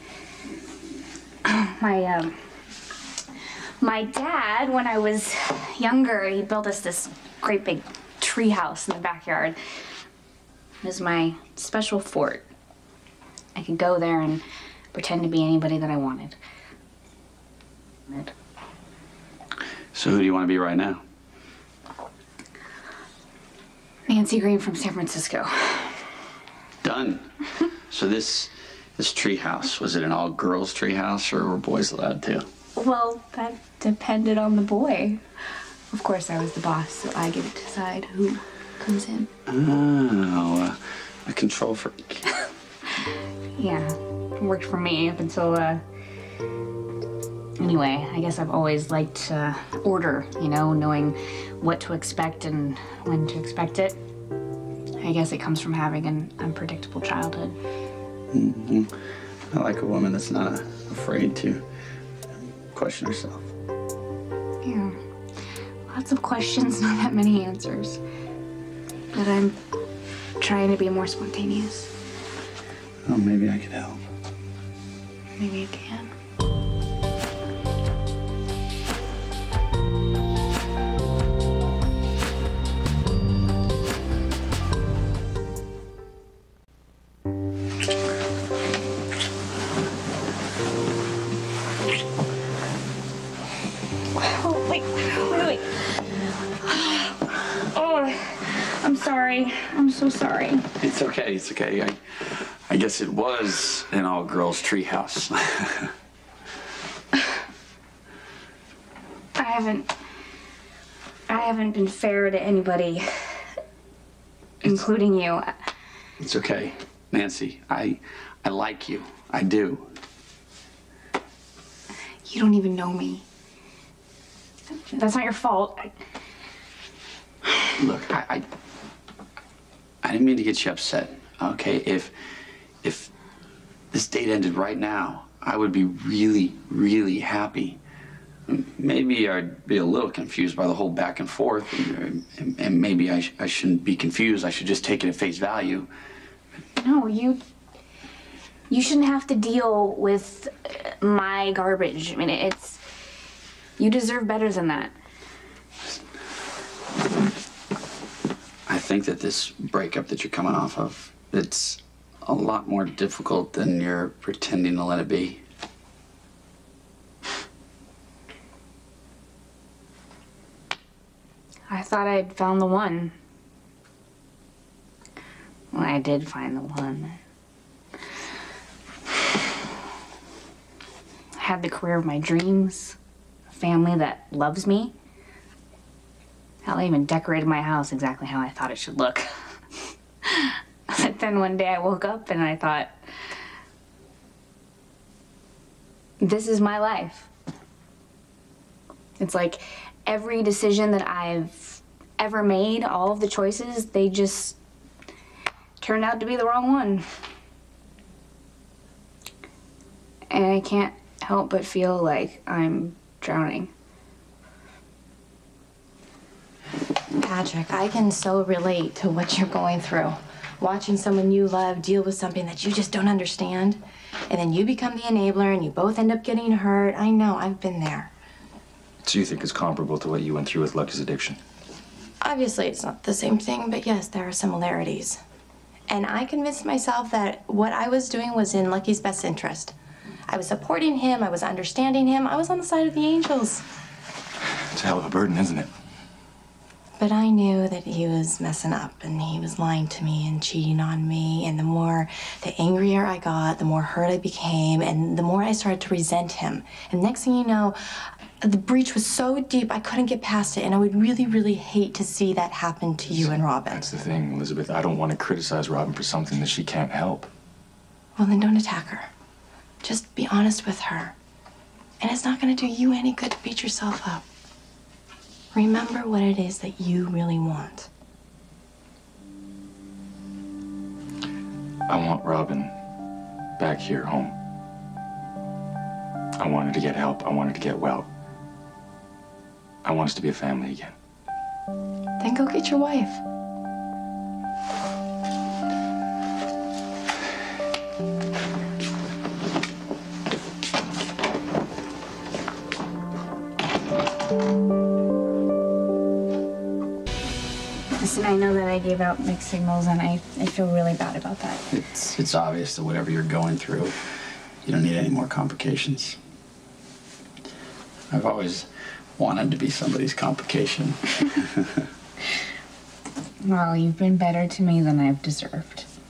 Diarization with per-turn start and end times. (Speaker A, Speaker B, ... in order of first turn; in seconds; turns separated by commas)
Speaker A: 1.4-2.4, Speaker A: 3.8-9.6, Speaker A: 10.8-12.4, Speaker A: 13.5-14.4, Speaker A: 14.9-16.4, Speaker B: 19.9-21.0, Speaker A: 24.1-26.0, Speaker B: 26.8-27.3, Speaker B: 27.9-32.5, Speaker A: 32.8-35.2, Speaker A: 35.9-39.3, Speaker B: 39.5-42.2, Speaker A: 43.0-45.8, Speaker A: 47.6-54.0, Speaker A: 55.0-57.6, Speaker B: 58.3-58.9, Speaker B: 59.5-61.6, Speaker B: 62.5-63.5, Speaker A: 64.6-65.0, Speaker A: 65.9-68.0, Speaker A: 69.1-69.5, Speaker A: 70.4-71.9, Speaker B: 73.0-74.0, Speaker A: 75.4-76.1, Speaker A: 94.2-95.8, Speaker A: 96.6-100.7, Speaker B: 100.8-105.9, Speaker A: 109.3-109.9, Speaker A: 111.3-113.5, Speaker A: 114.6-115.5, Speaker B: 116.2-119.9, Speaker A: 122.2-123.2, Speaker A: 124.8-125.9, Speaker B: 127.8-128.4, Speaker B: 130.0-132.1, Speaker B: 132.8-133.1, Speaker B: 133.9-137.8, Speaker B: 138.5-145.9, Speaker A: 146.8-147.4, Speaker A: 148.7-152.8, Speaker A: 153.8-154.9, Speaker B: 158.7-165.4, Speaker A: 171.7-173.1, Speaker A: 175.7-177.2, Speaker A: 181.3-183.0, Speaker A: 183.5-184.9, Speaker A: 186.6-189.3, Speaker A: 190.2-192.9, Speaker A: 196.2-197.3, Speaker A: 199.2-204.6, Speaker A: 205.8-207.0, Speaker A: 210.3-213.7, Speaker C: 217.2-223.8, Speaker C: 224.3-228.1, Speaker D: 229.0-231.4, Speaker C: 232.2-235.2, Speaker C: 235.9-239.7, Speaker C: 240.3-243.6, Speaker D: 244.7-245.7, Speaker C: 247.0-263.9, Speaker D: 263.1-267.3, Speaker C: 268.2-269.1, Speaker C: 269.8-271.1, Speaker C: 272.0-274.2, Speaker C: 275.5-277.9, Speaker D: 281.9-282.7, Speaker D: 283.6-284.4, Speaker D: 286.4-288.1, Speaker D: 289.8-290.9, Speaker C: 292.2-293.2, Speaker A: 308.0-311.6, Speaker B: 311.7-313.9, Speaker B: 314.6-316.2, Speaker B: 318.1-321.8, Speaker A: 323.4-325.9